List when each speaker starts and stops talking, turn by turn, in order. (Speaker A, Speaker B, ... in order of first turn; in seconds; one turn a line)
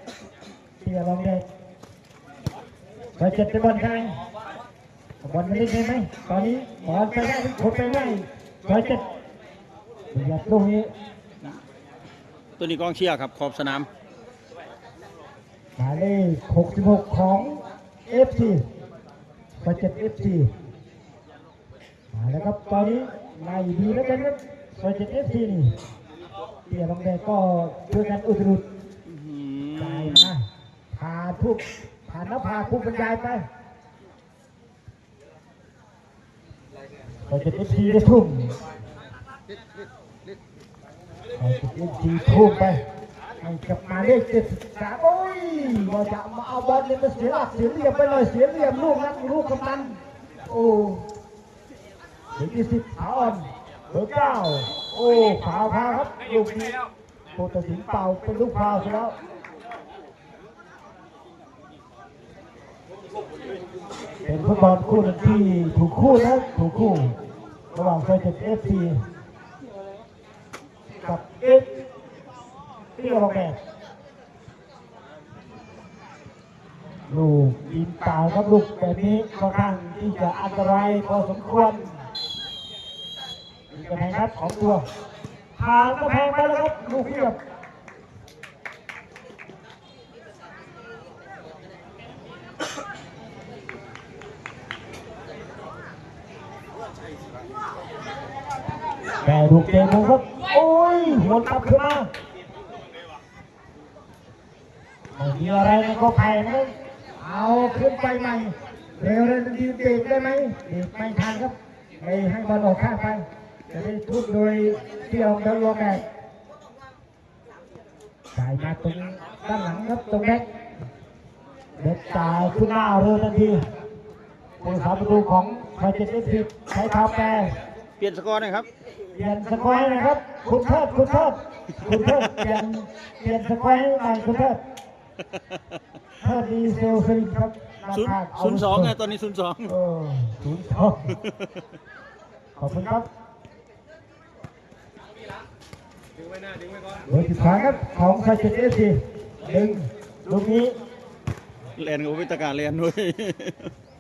Speaker A: 0.8-1.4
Speaker A: 3.2-4.2
Speaker A: 5.2-9.0
Speaker A: 10.1-10.9
Speaker B: 12.6-13.9
Speaker A: 15.8-18.6
Speaker A: 19.6-20.5
Speaker A: 22.1-25.8
Speaker A: 26.7-28.6
Speaker B: 29.1-30.3
Speaker A: 29.8-33.4
Speaker A: 37.3-38.5
Speaker A: 41.4-42.8
Speaker A: 43.4-51.0
Speaker A: 52.4-56.8
Speaker A: 57.3-59.1
Speaker A: 64.2-67.2
Speaker A: 67.7-69.0
Speaker A: 71.0-71.7
Speaker A: 73.0-73.6
Speaker A: 77.1-81.9
Speaker A: 83.7-84.8
Speaker A: 85.6-87.4
Speaker A: 99.2-102.1
Speaker A: 105.2-116.0
Speaker A: 118.3-120.5
Speaker A: 121.8-123.6
Speaker A: 124.6-127.6
Speaker B: 128.0-128.7
Speaker A: 129.2-134.6
Speaker A: 136.2-138.9
Speaker B: 137.9-139.7
Speaker A: 139.7-141.1
Speaker A: 142.6-143.1
Speaker A: 147.1-150.7
Speaker B: 151.8-153.7